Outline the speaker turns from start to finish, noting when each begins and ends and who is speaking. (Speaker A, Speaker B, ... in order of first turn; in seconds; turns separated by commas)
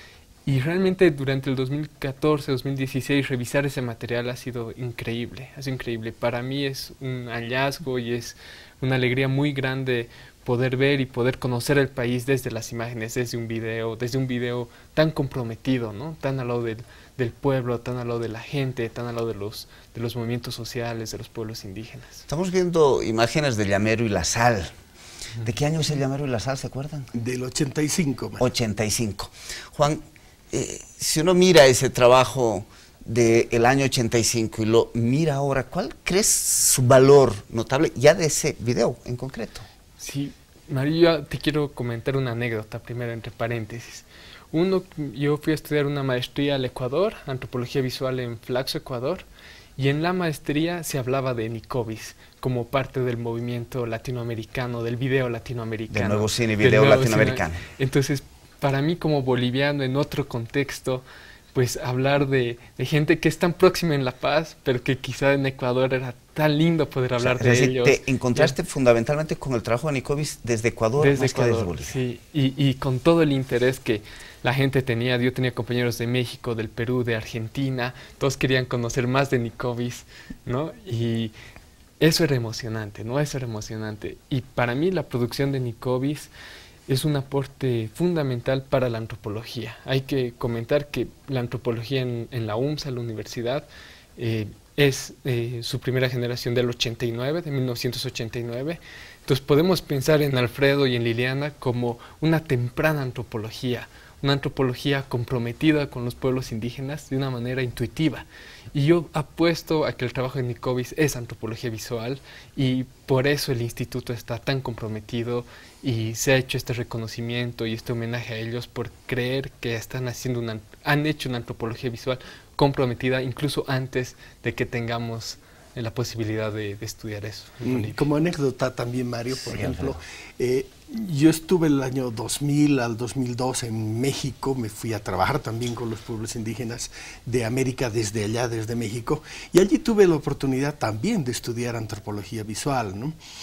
Speaker A: 0.5-22.2, Speaker B: 22.3-24.7, Speaker B: 25.4-27.1, Speaker C: 27.1-28.4, Speaker B: 28.4-39.6, Speaker A: 40.0-49.3, Speaker A: 49.8-68.5, Speaker B: 55.9-57.6, Speaker B: 67.2-72.0, Speaker A: 71.0-81.3, Speaker A: 82.0-86.3, Speaker A: 86.9-128.0, Speaker C: 127.6-143.2, Speaker B: 129.4-130.0